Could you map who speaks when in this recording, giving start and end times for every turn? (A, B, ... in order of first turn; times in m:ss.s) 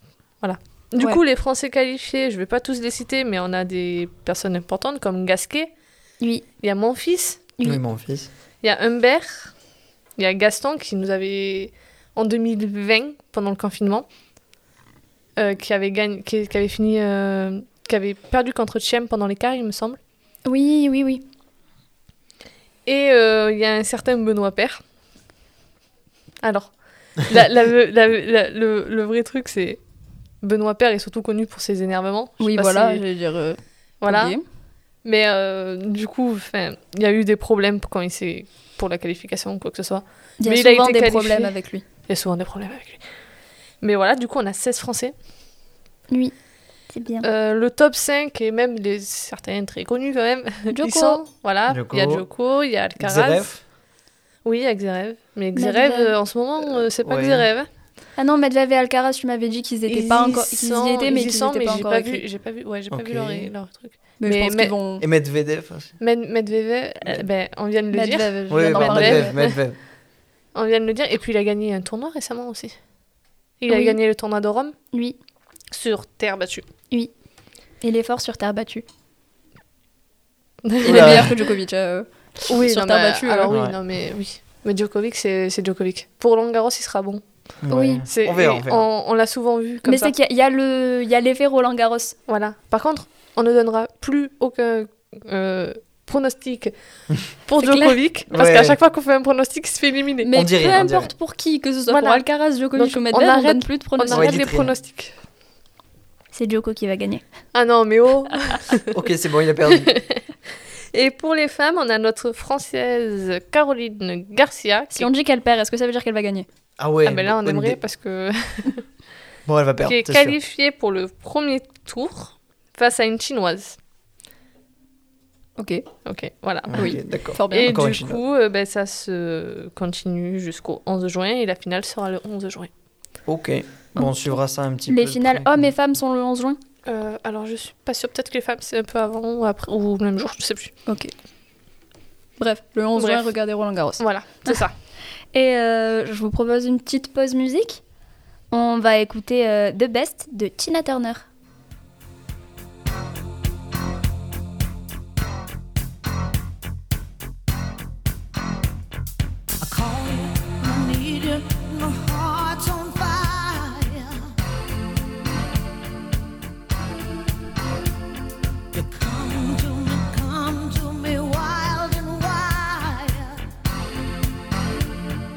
0:00.4-0:05.7 A
0:06.6-0:07.5 A
0:07.6-0:08.3 B
0:08.6-0:09.5 A
0:10.2-0:14.1 A
0:15.4-0:20.0 A
0:20.5-0:21.2 C
0:22.9-0:24.8 A
0:26.4-0:29.8 A
0:30.4-0:33.0 A
0:32.4-0:34.4 C
0:34.0-0:34.4 A
0:35.0-0:41.5 A
0:40.4-0:41.8 C
0:42.1-0:43.0 A
0:43.8-0:45.1 A
0:46.9-0:47.3 C
0:47.2-0:53.5 A
0:50.7-0:51.2 C
0:51.7-0:52.2 B
0:53.0-0:53.6 B
0:54.4-0:57.7 A
0:55.6-0:56.1 C
0:57.0-0:57.5 B
0:58.2-1:02.2 C
0:59.9-1:04.7 A
1:02.9-1:03.5 B
1:04.2-1:05.1 C
1:05.0-1:06.0 B
1:06.0-1:09.6 A
1:07.9-1:09.4 C
1:08.5-1:09.8 B
1:10.6-1:12.8 A
1:13.6-1:14.8 A
1:13.7-1:14.0 C
1:14.9-1:15.2 C
1:15.7-1:16.7 A
1:17.8-1:18.8 C
1:20.6-1:21.3 A
1:20.8-1:23.5 C
1:20.8-1:21.3 B
1:22.5-1:27.2 A
1:23.5-1:23.8 B
1:27.6-1:28.9 B
1:27.7-1:28.0 C
1:28.1-1:30.1 A
1:29.8-1:32.2 C
1:32.3-1:36.7 A
1:37.5-1:40.3 A
1:37.6-1:38.0 C
1:38.3-1:38.8 B
1:40.2-1:44.5 C
1:40.3-1:41.1 B
1:41.9-1:45.1 A
1:44.1-1:44.7 B
1:46.3-1:47.2 C
1:47.5-1:49.0 A
1:48.9-1:49.9 B
1:49.6-1:50.2 A
1:50.9-1:55.1 A
1:54.9-1:56.5 C
1:56.8-1:57.8 B
1:57.0-1:58.9 A
1:59.5-2:00.4 B
1:59.8-2:03.8 A
2:05.6-2:05.8 C
2:06.0-2:07.0 A
2:06.7-2:08.2 B
2:06.8-2:07.7 C
2:07.5-2:12.7 A
2:13.3-2:15.7 B
2:14.0-2:14.4 C
2:14.9-2:16.6 C
2:16.9-2:20.7 A
2:20.9-2:21.1 C
2:22.4-2:24.6 C
2:23.0-2:23.3 A
2:24.0-2:24.7 A
2:25.3-2:27.8 C
2:28.5-2:31.3 C
2:39.6-2:44.3 D
2:48.7-2:53.4 D